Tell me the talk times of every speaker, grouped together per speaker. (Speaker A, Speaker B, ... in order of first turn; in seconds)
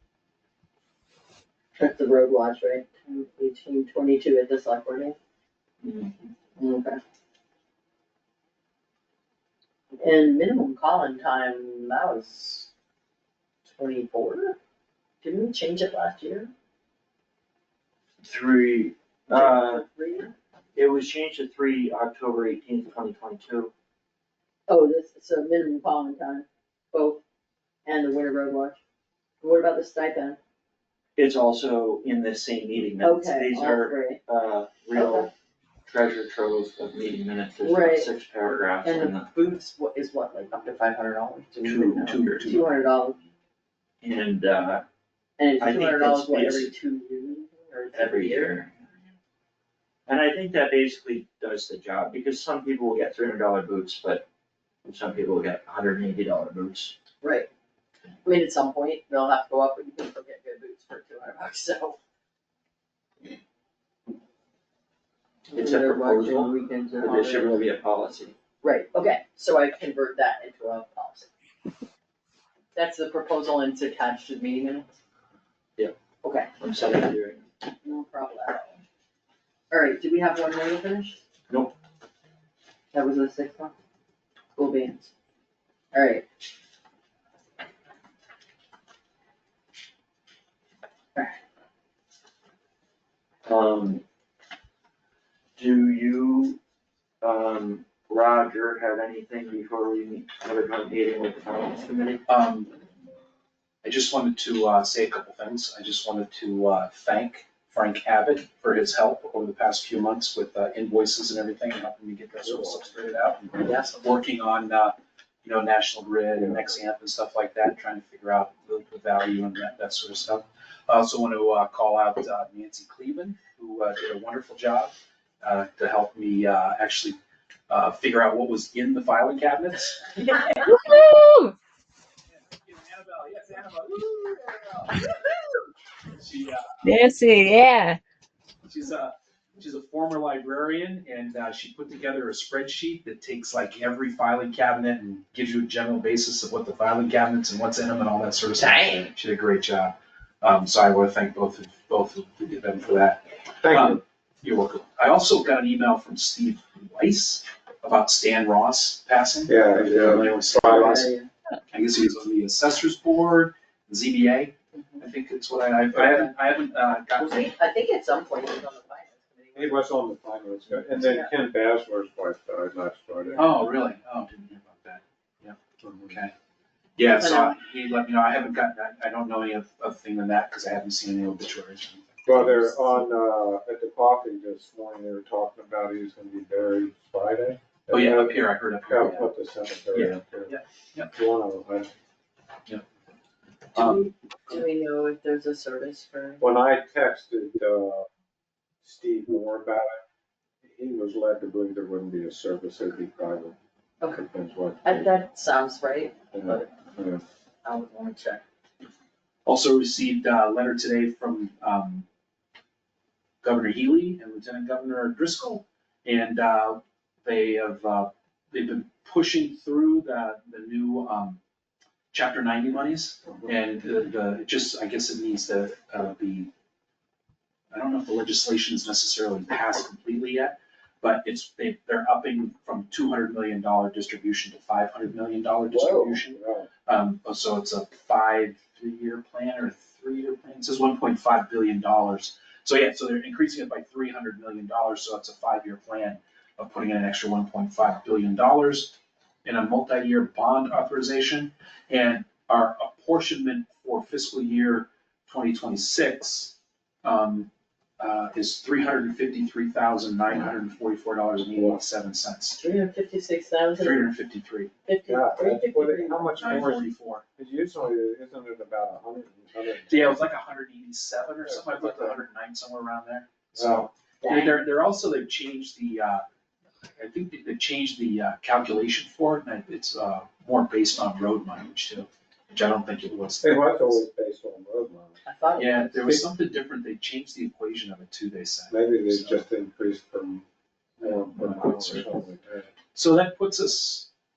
Speaker A: 1.8-5.2, 6.6-7.0, 10.0-12.7, 13.6-14.6, 15.2-16.5, 19.3-20.3, 24.7-27.2, 27.9-28.8, 29.4-30.4, 33.0-34.2, 34.9-35.3, 37.6-38.1, 38.8-43.2, 45.4-48.6, 57.2-57.5, 58.2-62.0, 65.5-67.6, 68.6-71.3, 72.7-74.9, 76.2-76.5, 77.8-78.8, 79.7-81.2, 82.9-83.7, 84.5-85.1, 85.9-86.2, 113.6-114.0, 160.7-161.3, 164.7-165.0, 165.9-166.3, 167.2-169.8, 177.1-177.6, 193.7-196.4, 204.0-204.2, 204.8-206.7, 207.6-208.4, 235.8-236.2, 262.6-264.1, 264.9-266.7, 274.2-274.5, 285.2-286.2
Speaker B: 5.8-6.3, 18.2-19.8, 20.7-23.7, 31.2-35.3, 35.9-39.3, 44.0-44.8, 45.6-46.7, 47.9-48.7, 50.0-54.2, 54.8-56.9, 65.5-68.3, 76.6-77.5, 93.5-94.0, 95.6-96.6, 97.2-102.2, 148.6-149.1
Speaker C: 41.6-42.6, 102.2-102.7, 103.8-127.2, 127.7-130.3, 132.3-134.9, 136.2-136.9, 138.6-161.1, 161.7-167.5, 173.3-176.3, 177.0-182.7, 187.9-189.3, 189.9-191.1, 193.7-194.6, 209.4-212.1, 213.4-221.4, 222.1-226.5, 227.7-262.6, 263.8-264.7, 266.4-267.2, 269.9-276.2, 276.9-284.0, 285.6-289.4, 291.0-292.2, 292.9-294.1
Speaker D: 112.4-113.7, 116.4-116.7, 153.6-154.0, 159.5-161.1, 169.6-173.6, 175.8-176.1, 182.2-190.6, 191.1-191.9, 196.4-198.1, 198.8-200.0, 200.6-203.5, 204.2-205.1, 206.3-207.2, 235.7-236.7, 261.5-261.8, 265.1-270.2, 271.4-272.2, 273.5-273.9, 283.4-285.2, 288.7-290.4, 291.0-292.7